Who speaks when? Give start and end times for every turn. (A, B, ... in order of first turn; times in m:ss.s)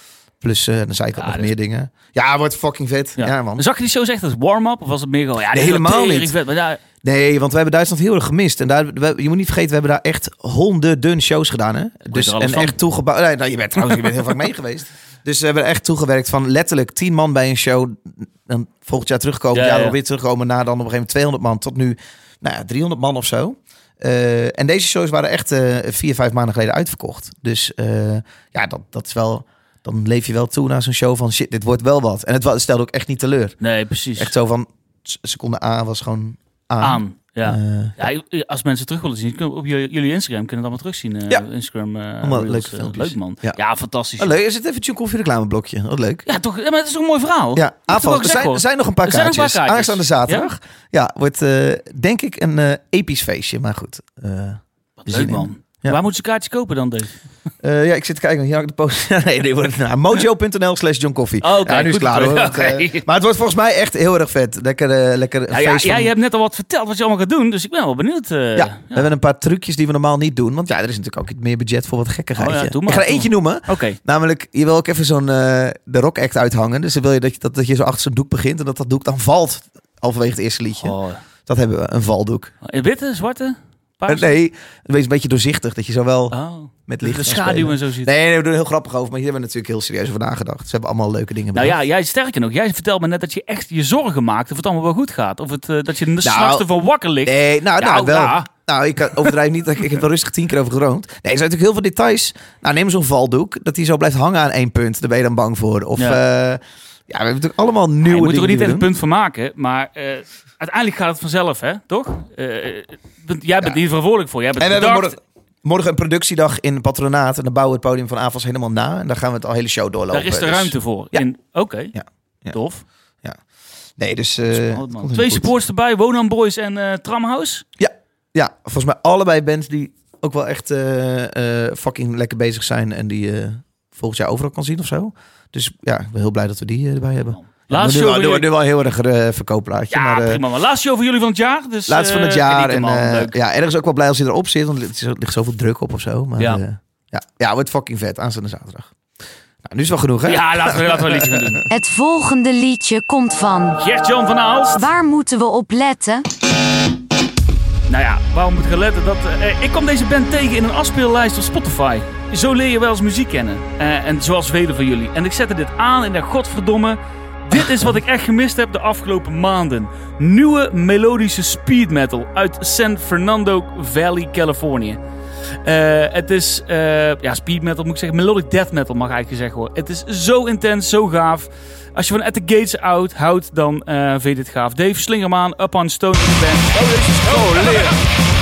0:00.4-0:03.6 A
0:01.2-0:01.5 B
0:03.2-0:06.8 B
0:05.5-0:06.3 A
0:07.0-0:33.6 A
0:12.1-0:12.8 B
0:19.5-0:20.0 B
0:33.6-0:34.3 B
0:34.2-0:38.0 A
0:36.8-0:44.4 B
0:42.2-0:43.6 A
0:44.2-0:46.2 A
0:46.2-0:50.5 B
0:47.6-0:56.0 A
0:55.0-0:57.2 B
0:57.6-1:06.1 A
1:01.4-1:03.1 B
1:05.5-1:09.1 B
1:08.6-1:22.5 A
1:12.4-1:14.0 B
1:20.8-1:21.2 B
1:22.6-1:24.4 B
1:24.1-1:26.4 A
1:26.3-1:28.1 B
1:26.9-1:31.8 A
1:31.5-1:38.5 B
1:36.2-1:36.7 A
1:37.2-1:48.9 A
1:48.0-1:55.1 B
1:54.6-2:01.2 A
2:00.1-2:01.9 B
2:01.9-2:02.6 A
2:02.5-2:02.8 B
2:04.0-2:05.5 A
2:04.5-2:07.6 B
2:07.8-2:20.4 A
2:17.3-2:18.5 B
2:19.9-2:23.4 B
2:21.9-2:28.9 A
2:29.6-2:31.6 A
2:30.2-2:31.6 B
2:31.7-2:33.8 C
2:33.8-2:34.9 B
2:34.7-2:36.2 C
2:37.9-2:55.0 B
2:55.6-3:07.9 B
3:06.8-3:08.0 A